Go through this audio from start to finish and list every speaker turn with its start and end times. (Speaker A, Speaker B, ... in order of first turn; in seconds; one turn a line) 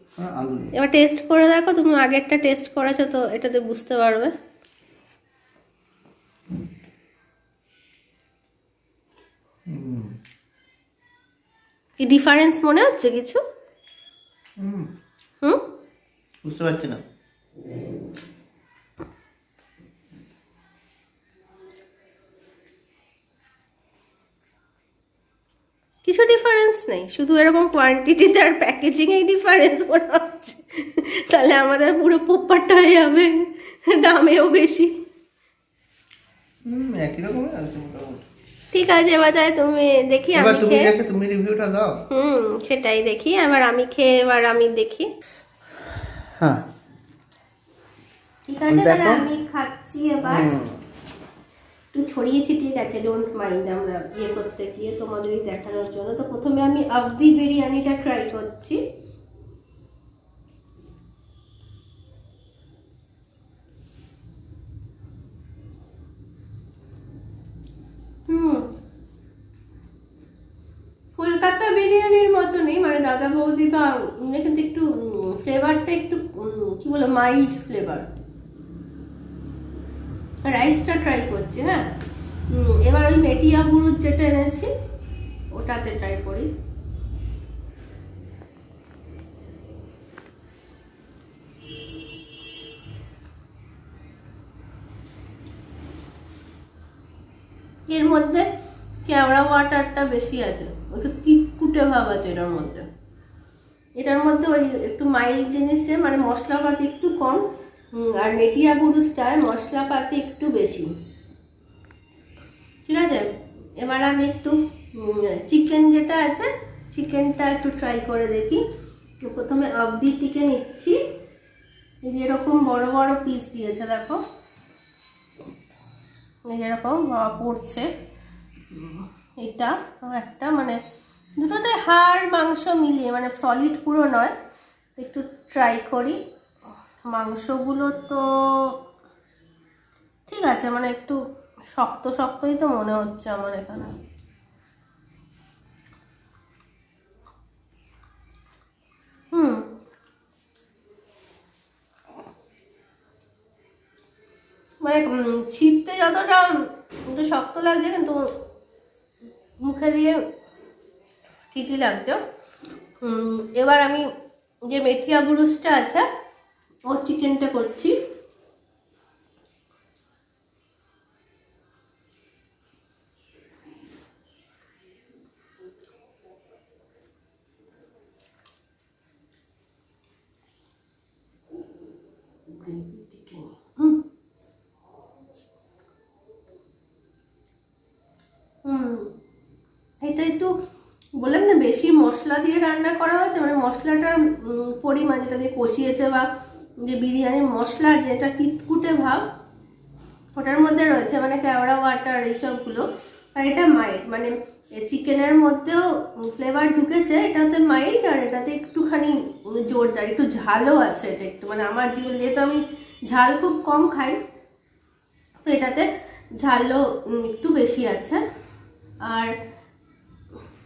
Speaker A: 0.2-0.7
Speaker B: 0.7-4.3
Speaker A: 9.7-10.1
Speaker B: 12.0-13.4
Speaker A: 14.6-14.8
Speaker A: 16.4-17.0
Speaker B: 26.0-33.4
Speaker B: 34.0-34.9
Speaker A: 36.6-38.2
Speaker B: 38.7-40.9
Speaker A: 40.3-41.9
Speaker B: 42.1-45.1
Speaker A: 46.4-46.6
Speaker B: 48.5-50.5
Speaker A: 48.7-49.2
Speaker A: 50.2-50.7
Speaker B: 51.9-58.8
Speaker B: 68.3-68.6
Speaker B: 71.2-78.1
Speaker B: 80.4-81.8
Speaker B: 82.5-84.7
Speaker B: 85.5-86.5
Speaker B: 97.9-98.5
Speaker B: 99.0-102.8
Speaker B: 104.0-107.4
Speaker B: 107.9-110.9
Speaker B: 112.8-113.3
Speaker B: 113.8-118.6
Speaker B: 119.2-121.0
Speaker B: 122.0-124.2
Speaker B: 126.5-127.9
Speaker B: 128.7-130.8
Speaker B: 131.4-134.3
Speaker B: 134.9-136.2
Speaker B: 137.1-138.7
Speaker B: 140.3-141.2
Speaker B: 141.7-143.9
Speaker B: 149.3-149.7
Speaker B: 154.8-158.2
Speaker B: 159.6-160.2
Speaker B: 161.5-162.2
Speaker B: 163.0-164.1
Speaker B: 164.7-166.0
Speaker B: 166.9-167.9
Speaker B: 182.5-184.0
Speaker B: 188.7-189.1
Speaker B: 190.0-190.5
Speaker B: 191.2-196.2
Speaker B: 196.8-199.2
Speaker B: 200.3-214.2
Speaker B: 215.4-215.9
Speaker B: 216.4-218.2
Speaker B: 219.1-219.3